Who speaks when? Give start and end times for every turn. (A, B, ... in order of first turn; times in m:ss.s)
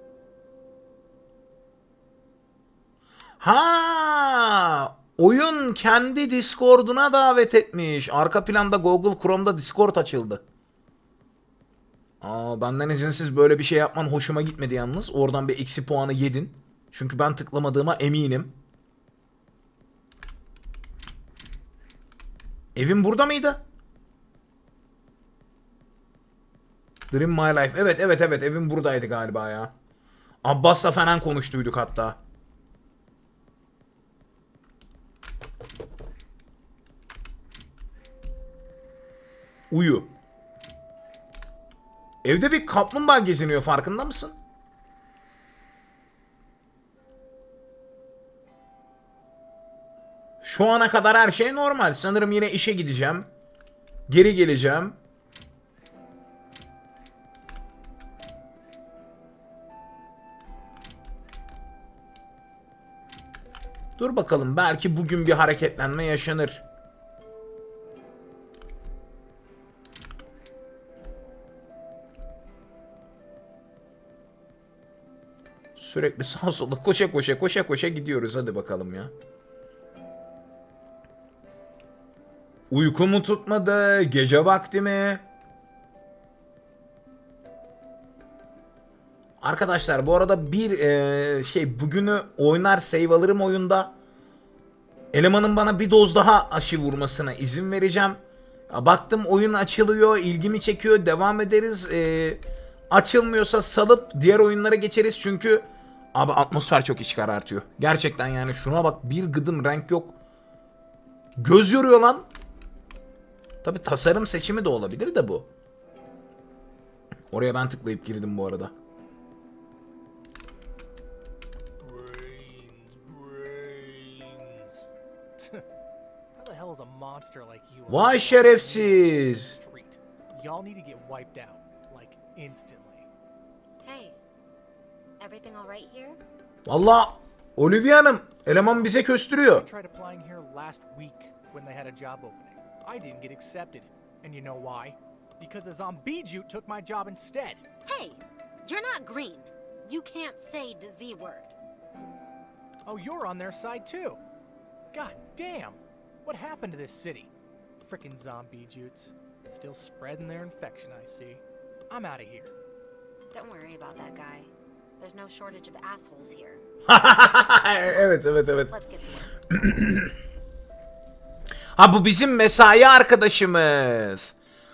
0:03.4-0:10.4 A
0:12.2-0:18.5 A
0:22.8-0:23.6 A
0:27.1-0:29.7 A
0:30.4-0:32.2 A
0:39.7-0:40.1 A
0:42.2-0:44.4 A
0:50.4-0:53.3 A
0:54.1-0:54.9 A
1:04.0-1:06.6 A
1:15.8-1:19.1 A
1:22.7-1:25.2 A
1:29.4-1:33.9 A
1:35.1-1:38.2 A
1:38.7-1:50.1 A
1:51.4-1:52.2 A
1:53.6-1:55.5 A
1:57.3-1:58.7 A
2:01.8-2:04.8 B
2:05.4-2:05.6 B
2:06.4-2:13.1 B
2:07.9-2:09.5 A
2:13.8-2:14.2 C
2:15.2-2:16.2 C
2:16.6-2:19.6 A
2:18.5-2:27.6 B
2:27.8-2:31.5 C
2:32.9-2:34.2 B
2:34.9-2:37.3 B
2:37.8-2:42.5 B
2:43.3-2:46.6 C
2:46.9-2:48.7 A
2:48.7-2:49.3 C
2:49.5-2:50.1 A
2:51.8-2:54.3 A